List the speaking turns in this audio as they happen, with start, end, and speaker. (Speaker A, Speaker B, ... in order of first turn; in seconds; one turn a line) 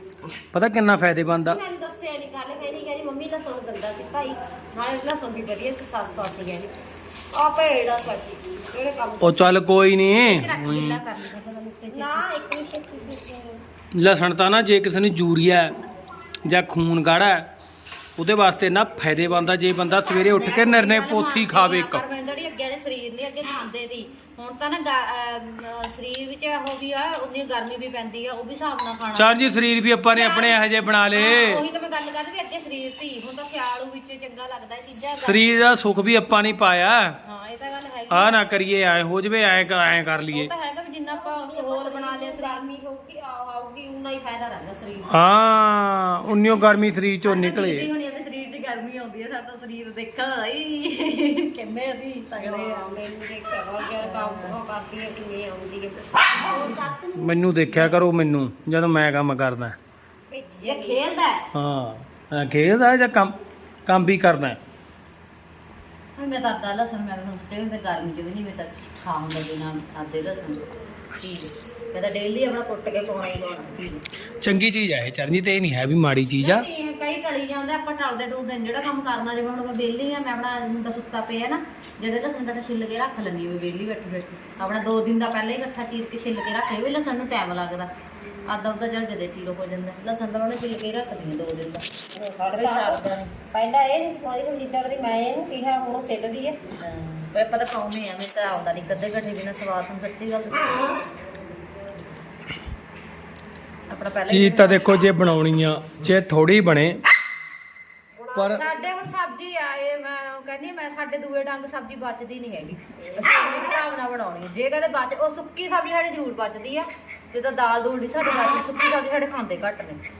Speaker A: 0.5-1.6
Speaker B: 1.4-6.7
Speaker B: 7.3-9.5
Speaker A: 9.2-11.0
Speaker C: 10.2-12.3
Speaker B: 11.9-13.6
Speaker A: 13.9-15.7
Speaker A: 16.4-17.5
Speaker A: 18.2-22.0
Speaker C: 20.0-29.6
Speaker A: 29.1-31.6
Speaker C: 30.1-35.6
Speaker A: 35.2-37.2
Speaker C: 37.2-38.4
Speaker A: 38.1-40.5
Speaker C: 40.3-42.6
Speaker B: 41.1-45.2
Speaker A: 45.1-47.9
Speaker C: 47.2-53.0
Speaker B: 52.4-56.9
Speaker C: 54.0-54.6
Speaker C: 56.4-57.9
Speaker A: 57.2-59.8
Speaker B: 60.3-61.0
Speaker C: 60.6-61.5
Speaker A: 61.5-63.4
Speaker A: 63.9-64.6
Speaker C: 66.2-74.0
Speaker A: 74.4-76.7
Speaker C: 76.4-87.9
Speaker C: 88.4-91.8
Speaker B: 92.2-96.6
Speaker C: 92.5-93.2
Speaker C: 96.8-100.9
Speaker B: 100.7-101.0
Speaker C: 103.9-104.9
Speaker A: 104.3-107.0
Speaker B: 108.2-108.9
Speaker A: 108.3-108.7
Speaker C: 108.5-120.0
Speaker B: 113.0-113.7